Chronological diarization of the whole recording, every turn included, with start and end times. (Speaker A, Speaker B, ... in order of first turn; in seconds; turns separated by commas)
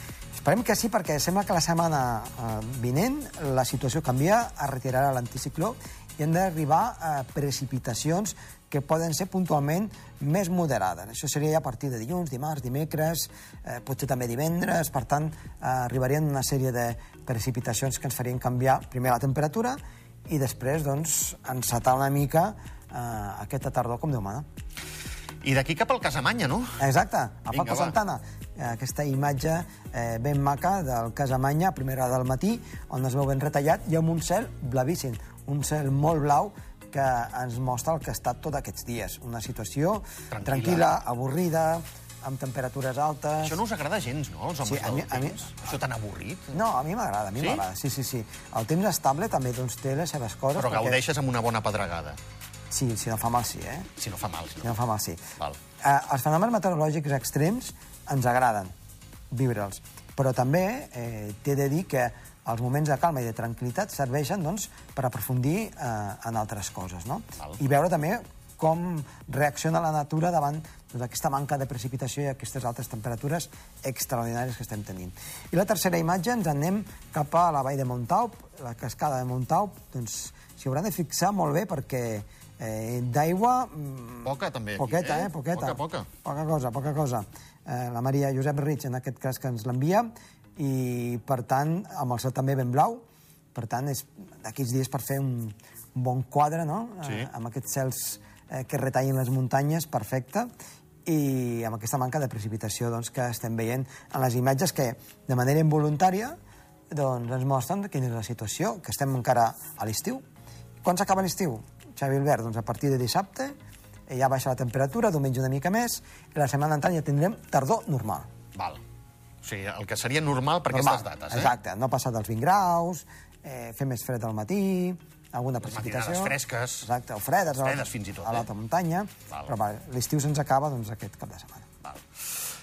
Speaker A: 0.3-24.5, Speaker B: 25.4-26.8, Speaker A: 26.8-43.6, Speaker B: 27.5-27.9, Speaker B: 40.3-40.9, Speaker B: 43.4-46.6, Speaker A: 44.6-45.5, Speaker A: 46.5-51.0, Speaker B: 47.4-47.6, Speaker B: 50.6-52.2, Speaker A: 52.7-53.9, Speaker B: 54.0-54.7, Speaker A: 54.6-55.2, Speaker A: 55.8-58.7, Speaker A: 59.3-93.0, Speaker B: 84.2-86.1, Speaker A: 93.5-100.5, Speaker A: 101.1-106.4, Speaker A: 106.9-110.2, Speaker A: 110.8-113.6, Speaker A: 114.1-118.3, Speaker B: 118.5-118.8, Speaker B: 119.4-121.5, Speaker A: 120.7-131.7, Speaker B: 125.7-126.9, Speaker B: 127.6-128.5